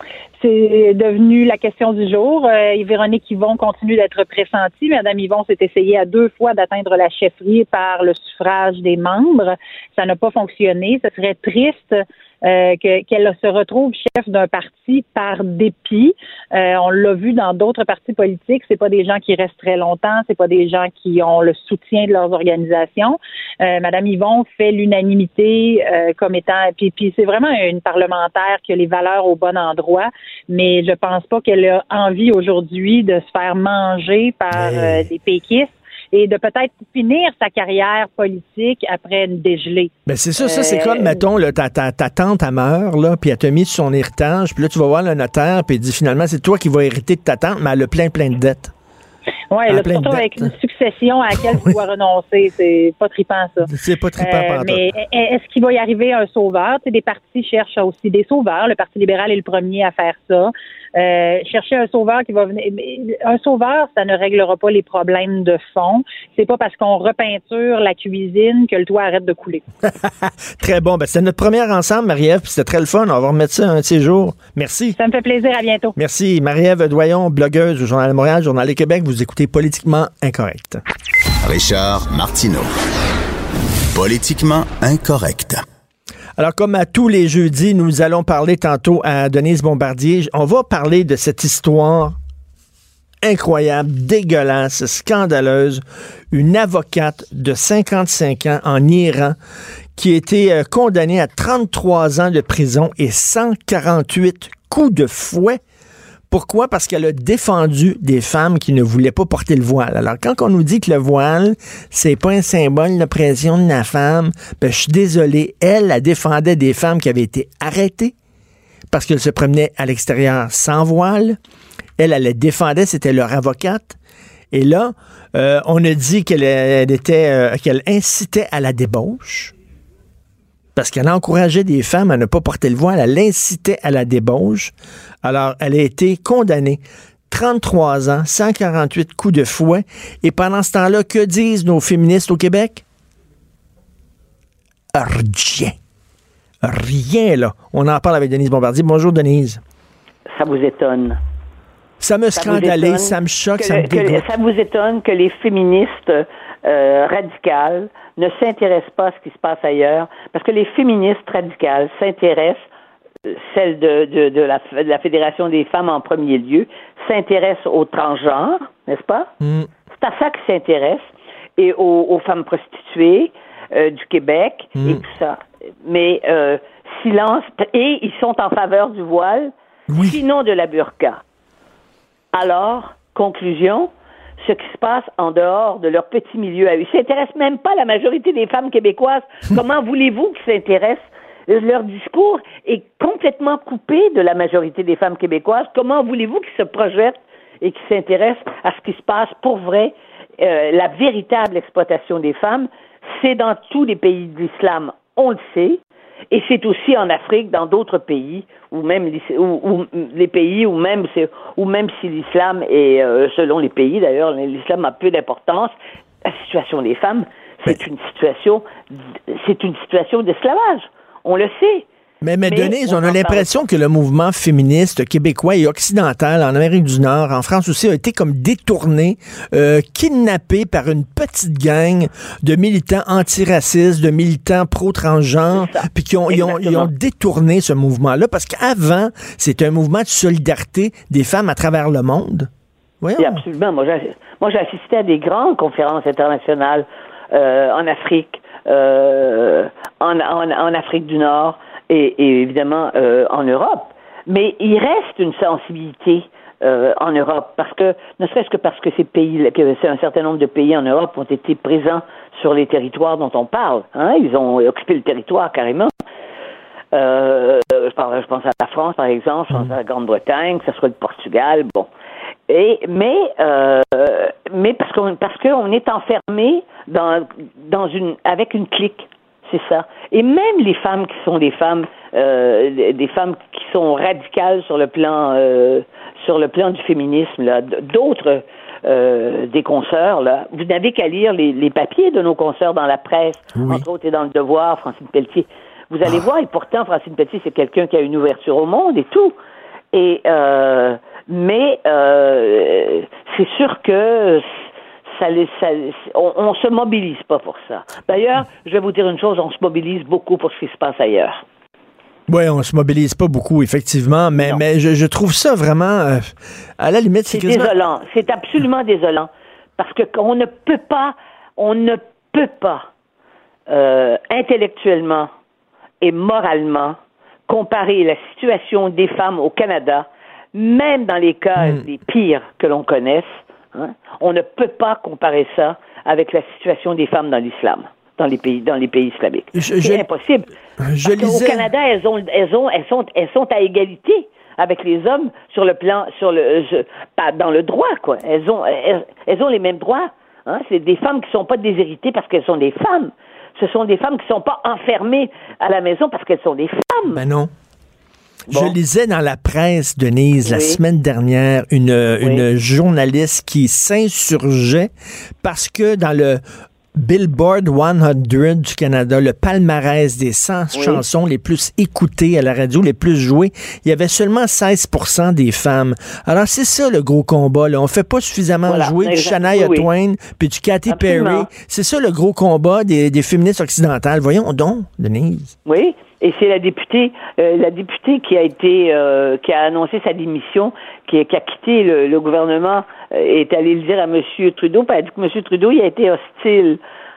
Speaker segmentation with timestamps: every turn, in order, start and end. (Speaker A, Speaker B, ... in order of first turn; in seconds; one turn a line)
Speaker A: 0.4-39.9
Speaker B: 34.5-35.1
Speaker B: 40.1-48.7
Speaker A: 40.4-41.1
Speaker A: 49.5-53.7
Speaker B: 49.7-50.5
Speaker B: 53.7-54.8
Speaker A: 54.2-69.6
Speaker B: 69.9-75.0
Speaker A: 75.0-76.0
Speaker B: 76.0-80.8
Speaker C: 81.4-82.7
Speaker C: 83.9-85.6
Speaker B: 86.4-92.2
Speaker B: 93.2-99.4
Speaker B: 100.0-105.6
Speaker B: 106.3-118.1
Speaker B: 118.9-121.4
Speaker B: 122.0-124.0
Speaker B: 124.5-129.5
Speaker B: 130.8-134.7
Speaker B: 135.2-142.8
Speaker B: 144.9-145.8
Speaker B: 146.6-149.6
Speaker D: 150.3-151.2
Speaker B: 152.0-154.3
Speaker D: 152.4-162.7
Speaker D: 163.2-169.3
Speaker B: 169.4-169.7
Speaker D: 169.9-181.2
Speaker B: 174.8-175.0
Speaker B: 179.9-180.2
Speaker D: 182.3-205.8
Speaker D: 206.3-218.7
Speaker D: 219.3-221.9
Speaker B: 222.2-242.5
Speaker D: 222.5-223.6
Speaker D: 235.5-236.9
Speaker B: 243.0-243.4
Speaker D: 243.2-265.9
Speaker D: 266.9-271.9
Speaker D: 272.5-299.4
Speaker B: 293.6-293.9
Speaker D: 299.9-304.5
Speaker D: 305.2-311.4
Speaker B: 312.3-317.7
Speaker D: 317.3-322.9
Speaker D: 323.7-325.3
Speaker D: 326.0-327.0
Speaker D: 327.5-340.5
Speaker B: 331.6-331.8
Speaker B: 339.6-340.1
Speaker B: 340.8-341.7
Speaker D: 341.1-357.2
Speaker B: 357.1-357.5
Speaker D: 358.5-358.8
Speaker B: 358.5-364.9
Speaker D: 360.4-360.8
Speaker B: 365.4-366.4
Speaker B: 367.0-385.5
Speaker D: 370.7-371.0
Speaker D: 378.7-379.9
Speaker D: 380.9-381.5
Speaker D: 385.7-396.8